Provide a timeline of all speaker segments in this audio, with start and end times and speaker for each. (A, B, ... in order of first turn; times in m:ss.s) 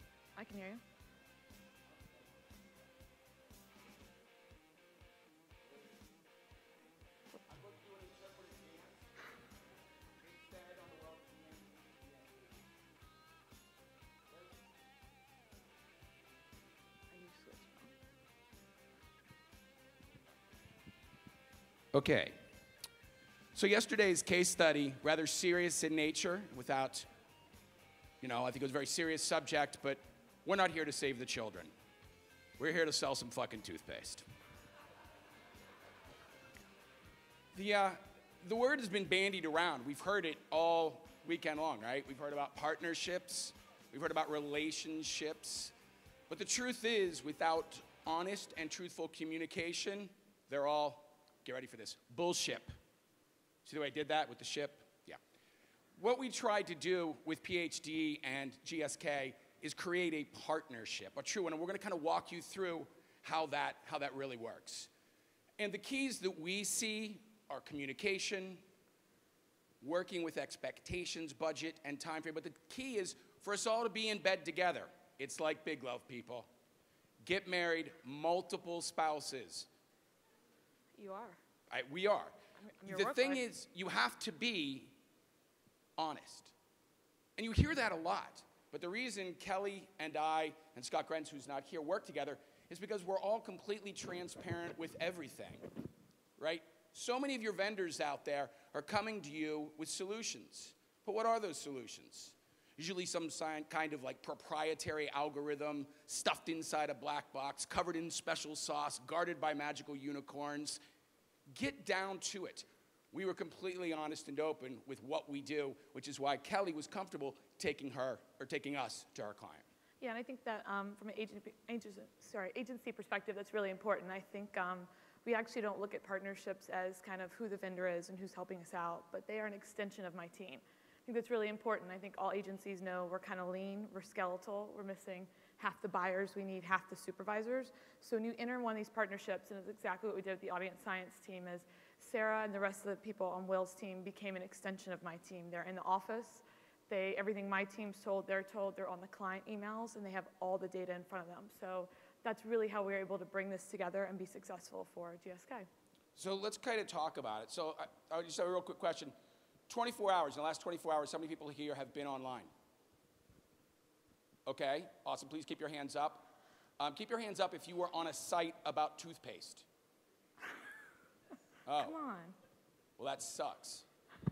0:00.4-0:00.8 A
0:07.4-0:09.1 B
0:10.2-0:12.6 B
0:17.1-0:17.9 A
0:21.9-0:22.4 B
0:23.5-0:27.1 B
0:28.2-0:31.7 B
0:32.6-0:34.2 B
0:37.5-0:45.7 B
0:46.3-0:52.7 B
0:53.6-0:55.2 B
0:56.0-1:04.9 B
1:05.6-1:08.6 B
1:09.8-1:16.5 B
1:17.2-1:19.7 B
1:21.0-1:21.4 A
1:21.7-1:22.3 B
1:22.6-1:23.4 A
1:22.8-1:24.9 B
1:26.0-1:26.5 B
1:27.4-1:35.7 B
1:36.4-1:50.8 B
1:51.5-1:59.6 B
2:00.0-2:35.6 A
2:36.1-2:39.1 B
2:39.7-2:42.5 B
2:44.4-2:49.6 B
2:51.6-2:52.0 B
2:51.8-2:52.4 A
2:53.0-2:53.8 B